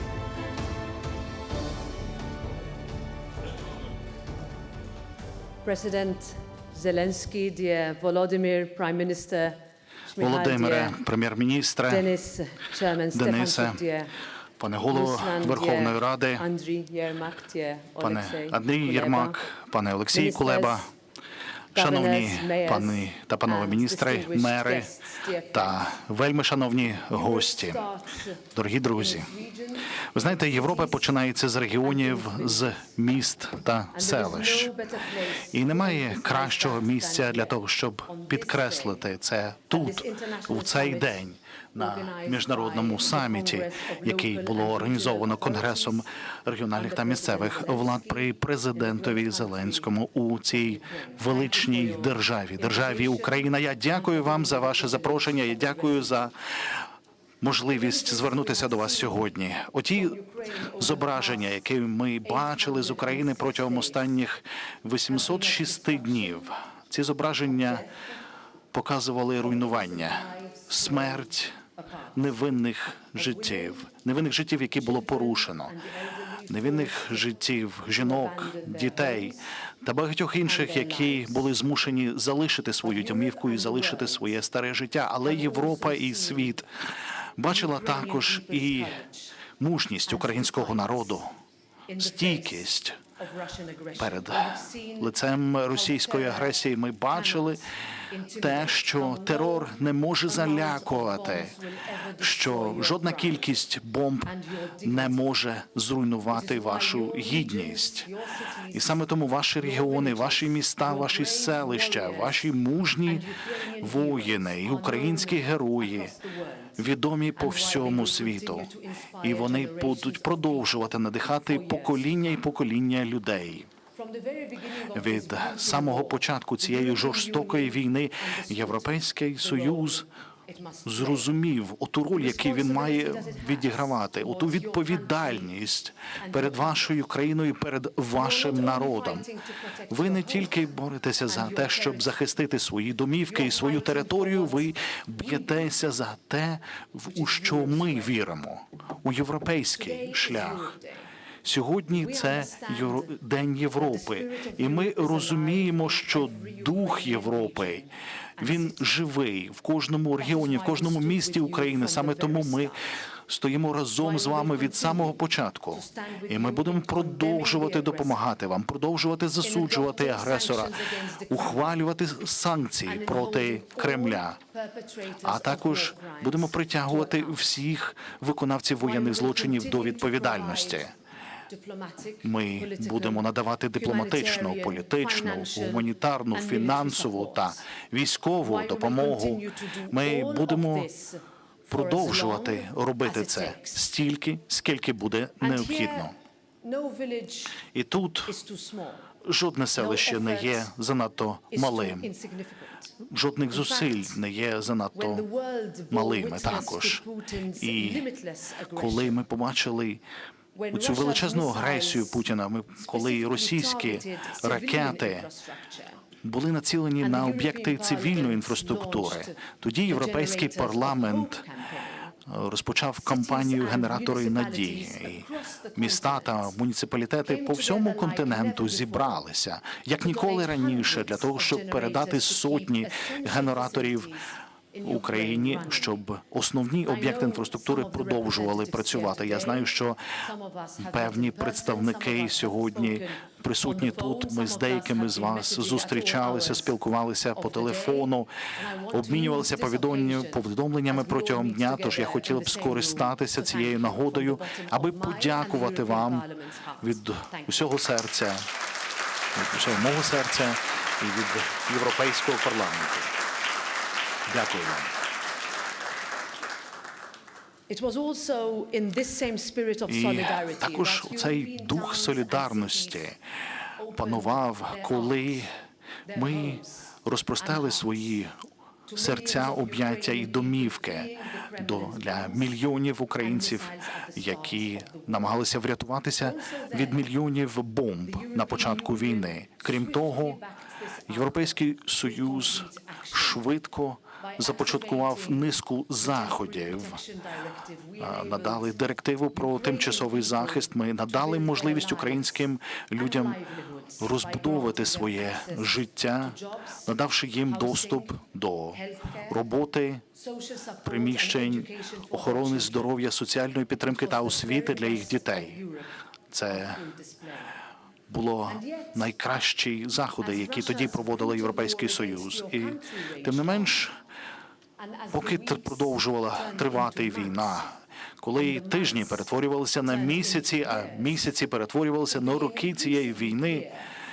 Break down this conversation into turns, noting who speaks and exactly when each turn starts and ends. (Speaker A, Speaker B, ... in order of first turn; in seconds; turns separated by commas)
Speaker A: 5.6-9.6, Speaker A: 10.1-11.0, Speaker B: 10.2-12.1, Speaker A: 11.8-14.1, Speaker B: 13.1-13.8, Speaker B: 14.6-16.4, Speaker A: 14.9-19.4, Speaker B: 18.0-20.9, Speaker A: 20.1-20.9, Speaker B: 21.7-24.9, Speaker A: 21.8-25.9, Speaker B: 25.5-27.8, Speaker A: 27.1-31.2, Speaker B: 28.5-29.3, Speaker B: 30.1-34.7, Speaker A: 31.8-32.8, Speaker A: 33.9-39.1, Speaker B: 35.5-56.4, Speaker A: 39.7-46.1, Speaker A: 46.7-50.0, Speaker A: 50.5-56.3, Speaker B: 57.4-67.9, Speaker A: 57.6-59.3, Speaker A: 59.9-61.6, Speaker A: 62.2-64.1, Speaker A: 65.1-66.5, Speaker A: 67.4-68.1, Speaker B: 68.7-71.6, Speaker A: 69.4-72.3, Speaker B: 72.2-75.7, Speaker A: 73.1-73.9, Speaker A: 74.7-79.4, Speaker B: 76.5-86.7, Speaker A: 80.4-81.6, Speaker A: 82.8-84.3, Speaker A: 85.2-86.6, Speaker B: 87.4-89.0, Speaker A: 87.5-89.4, Speaker B: 89.6-91.3, Speaker A: 90.0-91.2, Speaker A: 91.9-95.2, Speaker B: 92.0-93.0, Speaker B: 94.0-97.7, Speaker A: 95.7-103.6, Speaker B: 98.3-101.5, Speaker B: 102.2-108.1, Speaker A: 104.2-105.2, Speaker A: 106.3-122.3, Speaker B: 108.7-113.3, Speaker B: 113.8-116.2, Speaker B: 116.8-123.7, Speaker A: 123.9-131.3, Speaker B: 124.9-130.1, Speaker B: 130.8-139.3, Speaker A: 132.1-135.5, Speaker A: 136.2-136.9, Speaker A: 138.1-140.6, Speaker B: 139.9-150.7, Speaker A: 141.3-142.2, Speaker A: 143.2-145.7, Speaker A: 147.1-148.2, Speaker A: 149.7-151.1, Speaker B: 151.4-157.9, Speaker A: 151.9-158.9, Speaker B: 158.4-162.8, Speaker A: 160.1-162.9, Speaker B: 163.3-174.4, Speaker A: 164.0-168.2, Speaker A: 169.4-171.8, Speaker A: 172.8-177.4, Speaker B: 175.2-180.9, Speaker A: 178.8-180.9, Speaker A: 181.5-187.7, Speaker B: 182.2-190.9, Speaker A: 188.4-193.9, Speaker B: 191.7-196.1, Speaker A: 195.4-197.7, Speaker B: 197.7-198.3, Speaker A: 198.3-199.1, Speaker B: 199.2-202.1, Speaker A: 199.8-200.7, Speaker A: 201.5-202.9, Speaker B: 203.1-205.3, Speaker A: 203.5-204.2, Speaker A: 204.9-209.2, Speaker B: 205.9-207.0, Speaker B: 207.6-208.1, Speaker B: 208.7-210.0, Speaker A: 210.5-212.2, Speaker B: 210.7-215.3, Speaker A: 212.8-216.0, Speaker B: 216.2-221.4, Speaker A: 217.0-222.2, Speaker B: 222.3-234.1, Speaker A: 223.0-226.6, Speaker A: 227.2-229.2, Speaker A: 230.0-236.0, Speaker B: 234.8-240.0, Speaker A: 236.8-246.8, Speaker B: 240.8-256.3, Speaker A: 247.3-257.8, Speaker B: 256.8-258.5, Speaker B: 259.3-263.1, Speaker B: 264.3-264.9, Speaker A: 267.7-273.1, Speaker B: 269.9-273.2, Speaker A: 273.8-275.5, Speaker B: 273.9-275.5, Speaker A: 276.1-278.2, Speaker B: 276.1-278.4, Speaker A: 278.9-282.6, Speaker B: 278.9-290.4, Speaker A: 283.2-285.5, Speaker A: 286.2-287.1, Speaker A: 288.0-293.5, Speaker B: 291.1-297.0, Speaker A: 294.2-309.5, Speaker B: 298.0-303.4, Speaker B: 304.0-310.0, Speaker A: 310.1-312.9, Speaker B: 310.8-315.6, Speaker A: 313.8-317.6, Speaker B: 316.3-316.8, Speaker B: 318.1-323.9, Speaker A: 318.4-319.1, Speaker A: 320.2-323.9, Speaker A: 324.8-327.8, Speaker B: 325.1-333.7, Speaker A: 328.3-329.3, Speaker A: 329.8-331.3, Speaker A: 332.1-333.9